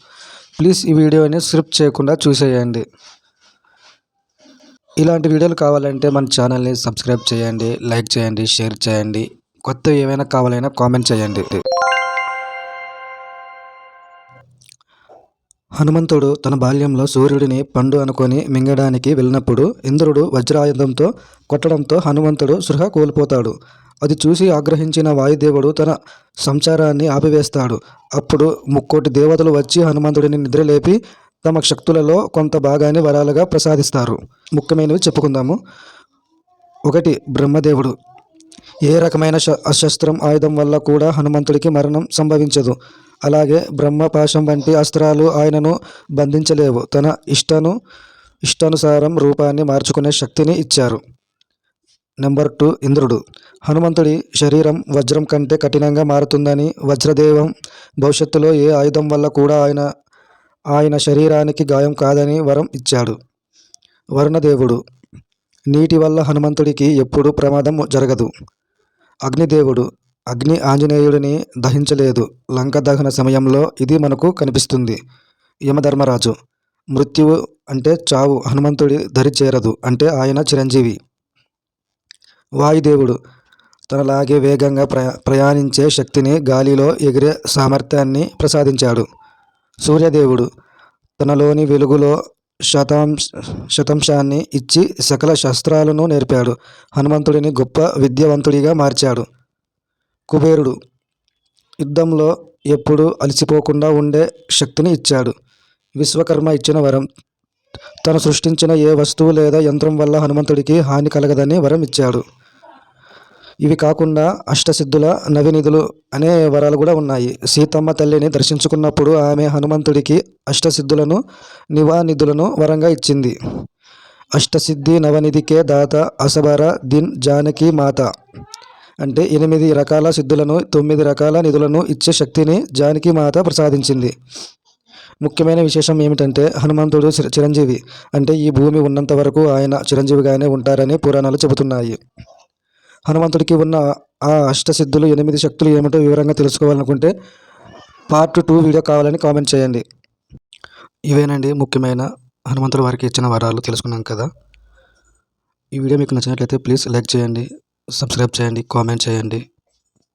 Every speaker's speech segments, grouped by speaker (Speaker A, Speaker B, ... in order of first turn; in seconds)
Speaker A: 0.6-2.8, 5.0-11.6, 15.8-35.6, 36.9-38.0, 38.9-42.8, 43.3-47.8, 48.5-51.0, 52.2-59.9, 60.7-63.2, 64.2-64.8, 65.7-68.3, 69.3-75.0, 75.7-76.3, 77.0-81.0, 82.6-83.2, 83.9-89.0, 89.8-90.5, 91.2-92.2, 92.7-99.2, 100.3-100.8, 101.8-105.3, 106.0-107.1, 108.0-112.2, 113.6-121.2, 121.8-123.3, 124.4-128.1, 129.0-134.1, 135.2-142.0, 143.1-147.1, 148.1-149.8, 151.1-154.3, 155.8-159.4